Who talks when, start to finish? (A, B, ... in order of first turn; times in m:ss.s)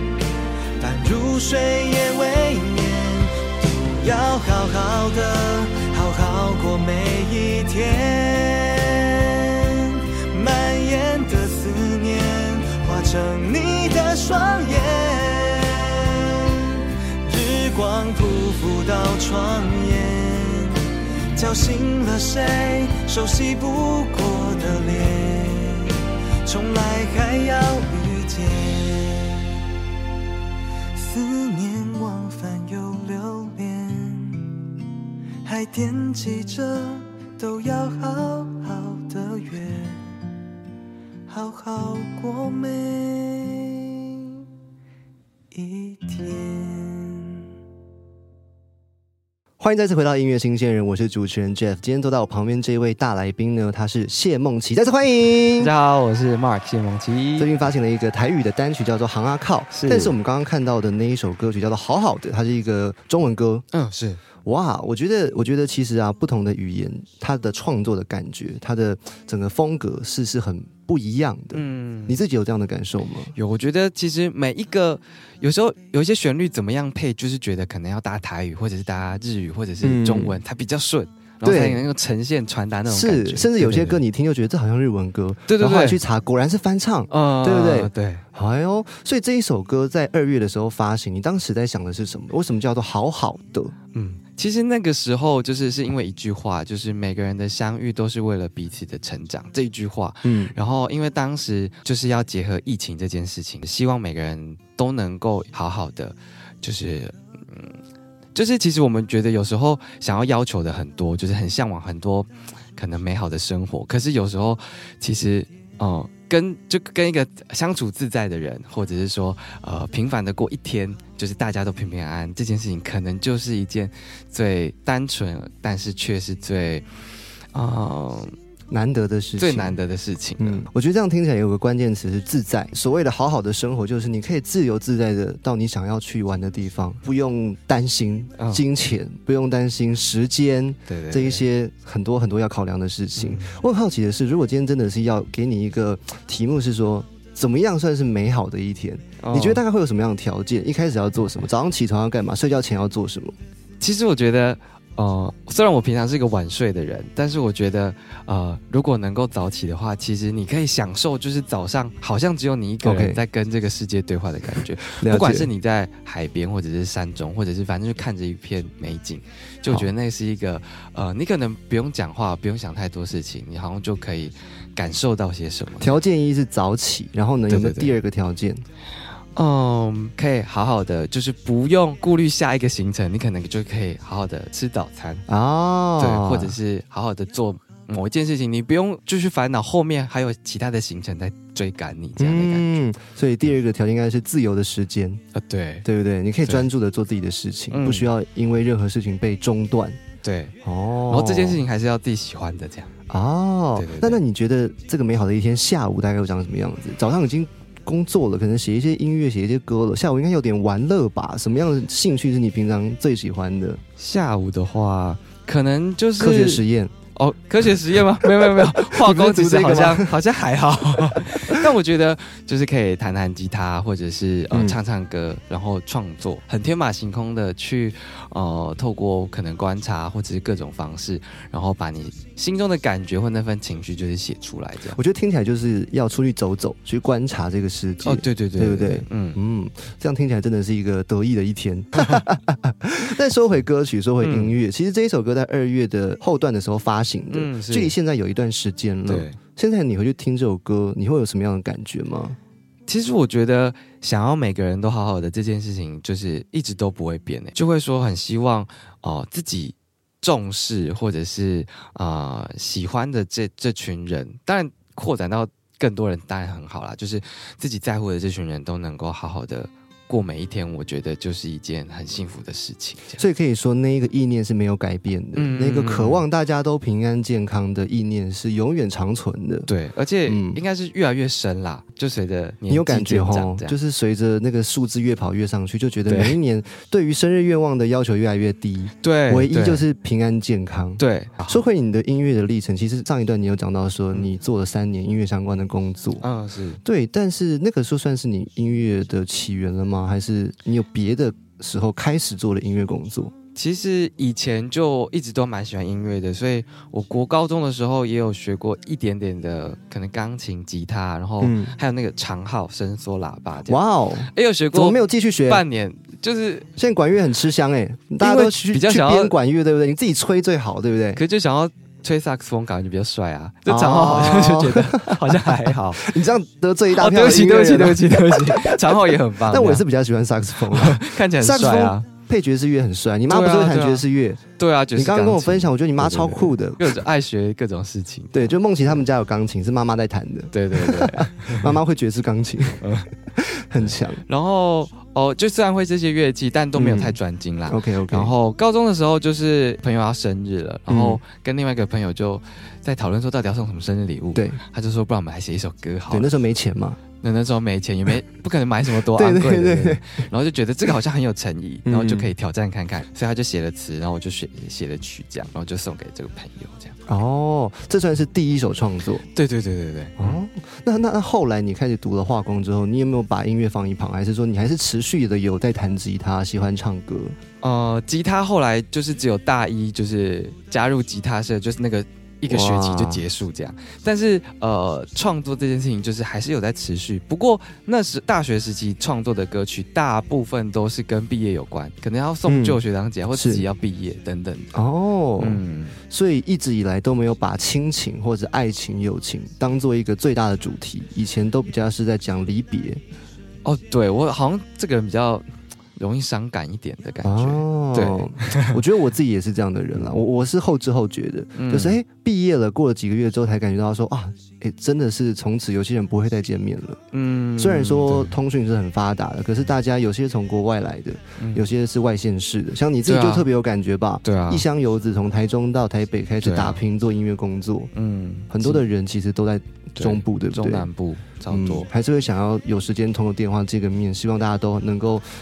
0:00.8-0:29.6 A
0:31.0-0:34.7 A
0:35.4-0:40.1 A
0:41.3-0:44.4 A
0:45.5-0:47.4 A
0:49.6-0:55.7 B
0:55.6-0:57.5 C
0:57.4-1:03.6 B
0:59.7-1:00.1 C
1:03.7-1:04.2 C
1:04.4-1:13.3 B
1:11.5-1:12.2 C
1:13.4-1:24.0 C
1:19.8-1:20.4 B
1:21.4-1:21.8 B
1:22.9-1:33.7 B
1:25.5-1:26.0 C
1:27.1-1:28.2 C
1:33.9-1:47.8 C
1:40.2-1:40.5 B
1:48.4-2:06.8 C
2:07.5-2:08.4 C
2:08.7-2:09.8 B
2:09.4-2:10.7 C
2:10.4-2:33.4 B
2:20.9-2:21.4 C
2:23.2-2:23.6 C
2:29.2-2:29.6 C
2:33.8-2:55.9 C
2:42.8-2:43.2 B
2:45.0-2:45.5 B
2:55.8-2:58.6 B
2:57.5-2:58.0 C
2:59.4-3:05.2 C
3:05.3-3:06.6 B
3:06.0-3:12.8 C
3:12.2-3:15.2 B
3:15.3-3:15.9 C
3:15.8-3:20.0 B
3:17.7-3:18.1 C
3:20.2-3:22.9 C
3:20.6-3:21.6 B
3:23.1-3:33.8 B
3:23.8-3:24.2 C
3:34.0-3:36.6 C
3:36.2-3:36.9 B
3:37.2-3:55.0 C
3:38.2-3:40.2 B
3:44.5-3:44.8 B
3:54.9-4:12.4 B
3:58.0-3:59.4 C
4:04.2-4:04.6 C
4:07.3-4:07.9 C
4:09.1-4:09.4 C
4:12.9-4:33.2 C
4:33.2-4:39.7 B
4:35.4-4:36.2 C
4:39.7-4:43.8 C
4:40.3-4:40.6 B
4:42.7-4:56.2 B
4:46.1-4:46.4 C
4:49.0-4:49.8 C
4:51.0-4:51.6 C
4:56.2-4:56.8 C
4:56.8-5:03.3 B
5:03.6-5:16.7 C
5:11.4-5:11.7 B
5:13.6-5:15.6 B
5:16.8-5:21.2 B
5:18.2-5:19.4 C
5:21.2-5:26.1 C
5:23.7-5:34.4 B
5:27.0-5:29.8 C
5:30.6-5:32.0 C
5:33.3-5:34.0 C
5:34.6-5:38.5 C
5:35.0-5:37.0 B
5:38.3-5:44.2 B
5:40.5-5:41.8 C
5:42.8-5:43.1 C
5:44.2-5:56.3 C
5:46.8-5:47.2 B
5:47.7-5:48.3 B
5:50.9-5:51.2 B
5:56.1-5:57.0 B
5:57.2-6:07.0 C
5:58.9-6:00.1 B
6:01.9-6:02.3 B
6:07.1-6:09.2 B
6:09.3-6:10.4 C
6:10.2-6:17.4 B
6:17.6-6:34.7 C
6:22.5-6:23.2 B
6:32.5-6:32.8 B
6:33.3-6:33.6 B
6:34.7-6:43.0 B
6:35.4-6:36.0 C
6:43.6-6:45.4 C
6:46.0-6:48.8 C
6:47.2-6:57.0 B
6:51.6-6:52.0 C
6:57.1-6:58.4 C
6:57.6-7:07.9 B
7:01.4-7:01.7 C
7:03.0-7:03.5 C
7:04.2-7:04.6 C
7:06.4-7:06.8 C
7:07.9-7:08.8 C
7:08.5-7:10.9 B
7:10.0-7:11.9 C
7:11.5-7:15.2 B